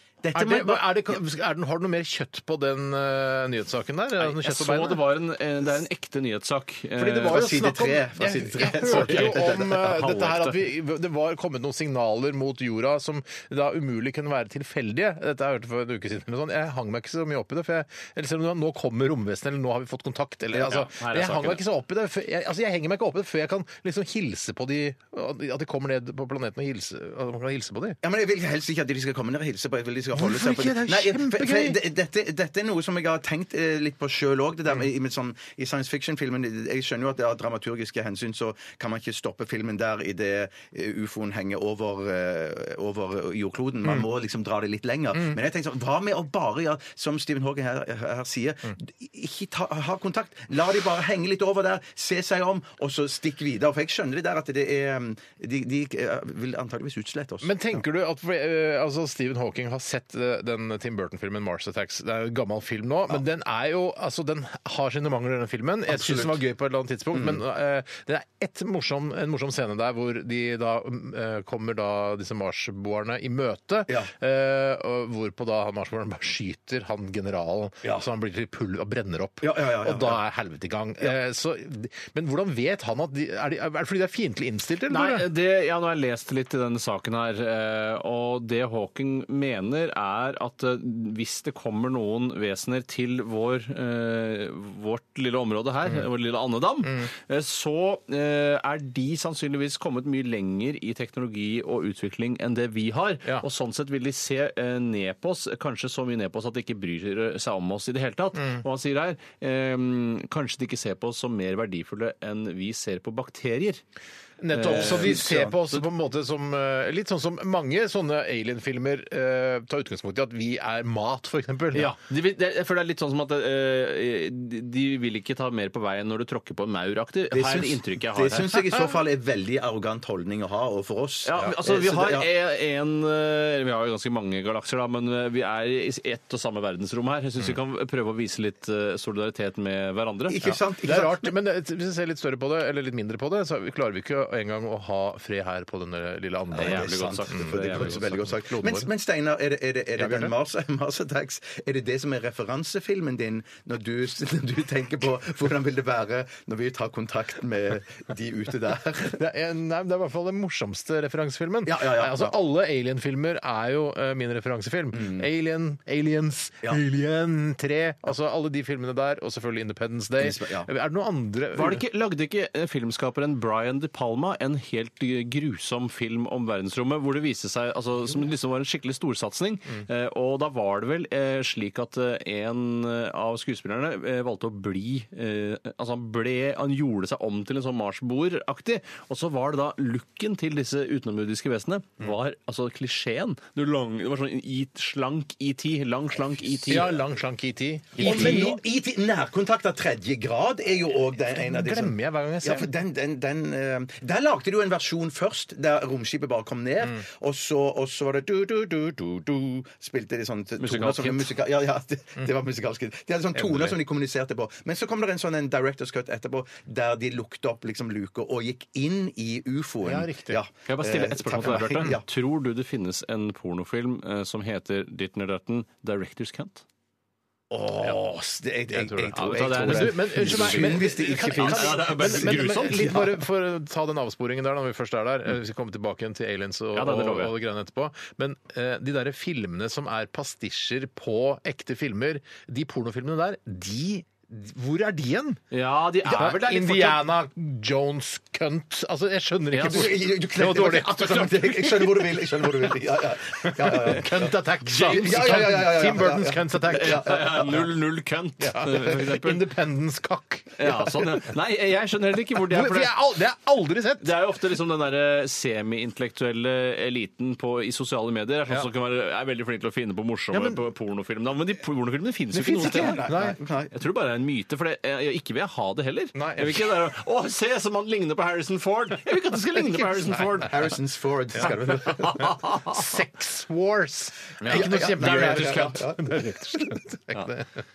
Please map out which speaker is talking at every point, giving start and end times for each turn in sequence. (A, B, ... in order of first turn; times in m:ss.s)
0:00.2-0:01.2 A
0:00.3-0:05.0 B
0:04.2-0:07.4 C
0:07.0-0:28.0 B
0:07.3-0:09.8 A
0:08.8-0:10.6 C
0:20.6-0:21.6 C
0:28.0-0:57.6 A
0:30.1-0:31.8 B
0:57.4-1:25.3 B
1:05.9-1:06.4 A
1:07.1-1:07.4 A
1:19.4-1:20.2 A
1:24.9-1:53.8 C
1:36.8-1:37.1 B
1:48.4-1:48.6 B
1:54.4-2:02.0 B
1:54.5-1:55.8 C
2:01.7-2:08.6 C
2:07.3-2:12.3 A
2:11.2-2:20.4 C
2:20.3-2:21.3 A
2:20.4-2:28.9 B
2:26.5-2:39.2 A
2:26.6-2:28.3 C
2:30.0-2:30.3 B
2:39.0-2:51.8 B
2:41.6-2:42.4 A
2:44.9-2:45.3 A
2:50.2-2:50.7 A
2:51.5-3:16.9 C
3:16.7-3:18.6 B
3:18.0-3:18.4 C
3:18.0-3:42.0 A
3:21.3-3:22.7 B
3:30.6-3:31.3 C
3:33.4-3:33.8 B
3:39.8-3:40.4 B
3:40.7-3:46.6 C
3:41.4-3:42.0 B
3:47.5-3:53.2 A
3:48.7-4:05.4 B
3:49.1-3:53.0 C
3:56.7-3:57.3 C
4:05.5-4:07.0 C
4:06.0-4:17.4 B
4:09.5-4:09.9 C
4:09.6-4:17.6 A
4:16.7-4:19.4 C
4:18.4-4:21.3 B
4:20.6-4:23.0 C
4:22.3-4:24.2 B
4:24.0-4:33.0 C
4:30.3-4:30.6 B
4:32.3-4:33.4 B
4:32.6-4:33.7 A
4:33.7-4:40.5 C
4:36.1-4:36.7 B
4:40.4-4:42.3 A
4:41.4-4:47.5 B
4:42.0-4:42.7 C
4:44.4-4:45.7 C
4:44.5-4:46.8 A